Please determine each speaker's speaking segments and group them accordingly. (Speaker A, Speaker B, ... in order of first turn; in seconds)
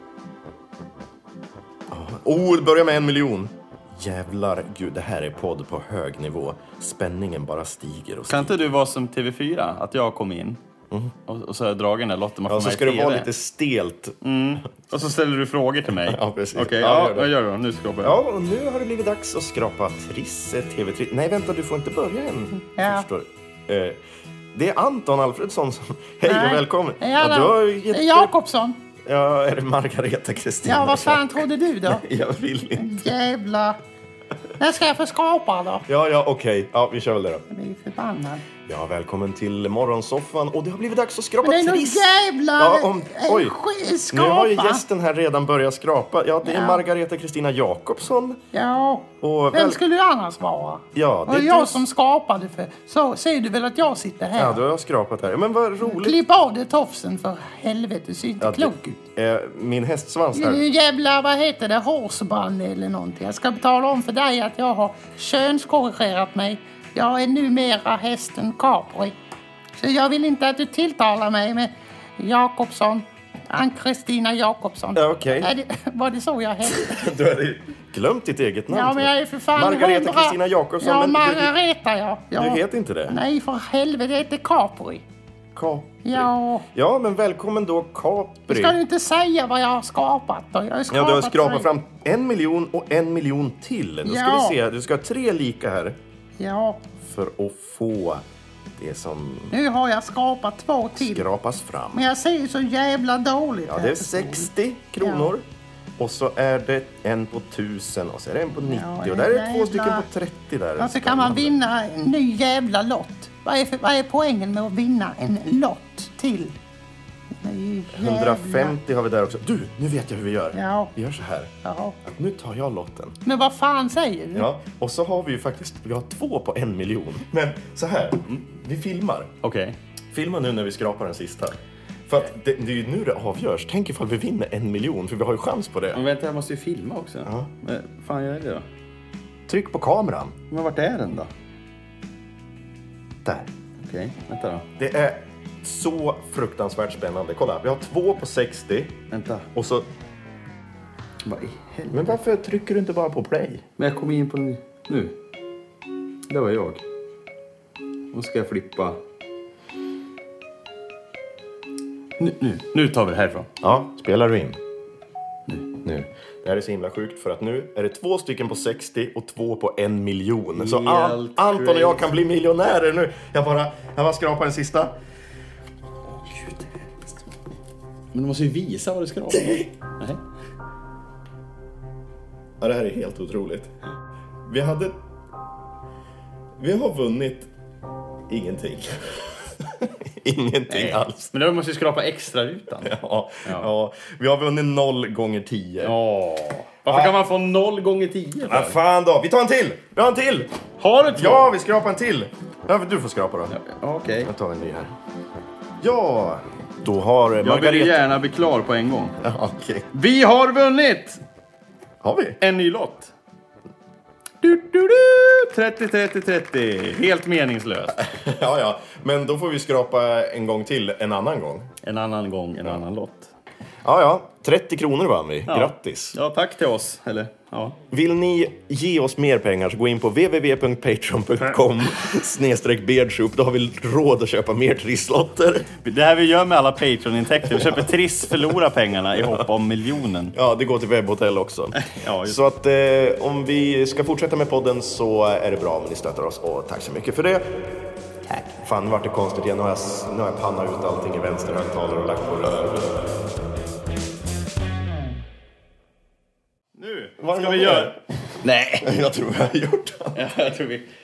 Speaker A: 1.9-8.6, 12.5-14.2, 15.9-17.3, 18.0-24.0, 24.5-28.3, 29.0-33.1, 35.9-37.4, 38.7-43.6, 44.1-48.4, 49.2-49.8, 51.0-51.9, 54.4-56.2, 58.4-60.6, 75.0-75.5, 76.7-81.5, 82.3-83.2, 85.5-88.8, 90.9-96.0, 97.0-98.2, 98.8-99.6, 100.9-102.0, 103.7-105.5, 106.0-111.6, 117.9-121.5, 122.0-123.2, 124.3-129.3, 130.1-136.0, 137.2-137.5, 139.5-140.4, 143.2-143.5, 144.8-149.0, 149.5-149.9, 151.9-153.7, 163.6-164.6, 165.8-174.9, 179.3-179.7, 182.6-183.7, 184.5-185.0, 186.6-187.5, 188.3-191.3, 192.8-195.9, 196.9-197.2, 198.5-200.5, 201.1-203.6, 204.2-204.9, 205.8-208.0, 209.2-209.9, 212.0-212.4, 217.9-221.7, 223.8-226.2, 227.9-235.7, 237.5-237.9, 239.2-239.5, 240.3-247.7, 248.6-253.2, 257.2-258.0, 258.8-260.2
Speaker B: 8.3-10.6, 11.3-13.3, 14.2-18.2, 129.4-129.8, 135.9-138.7, 140.5-141.3, 143.8-144.7, 149.1-149.5, 151.2-152.2, 153.8-155.2, 156.3-156.8, 158.1-159.0, 162.2-163.5, 170.6-172.2, 176.1-176.7, 178.1-180.2, 190.7-193.7, 195.8-198.8, 200.8-201.5, 203.5-204.3, 207.4-209.2, 209.9-211.2, 212.4-213.1, 214.4-218.0, 221.8-223.3, 225.5-227.8, 235.8-240.3, 241.8-242.4, 248.3-248.6, 256.8-258.9, 260.1-260.9
Speaker C: 22.7-23.1, 26.2-28.8, 30.6-32.0, 32.8-33.8, 34.6-35.9, 37.5-38.5, 41.4-44.8, 46.4-46.8, 48.5-54.6, 55.8-59.0, 60.3-69.2, 69.8-77.1, 78.7-85.0, 86.0-86.7, 88.5-91.7, 94.0-94.6, 96.4-96.8, 99.5-101.3, 101.9-105.3, 108.6-110.1, 110.8-116.6, 117.4-118.8, 120.5-120.9, 121.6-122.0, 123.2-124.5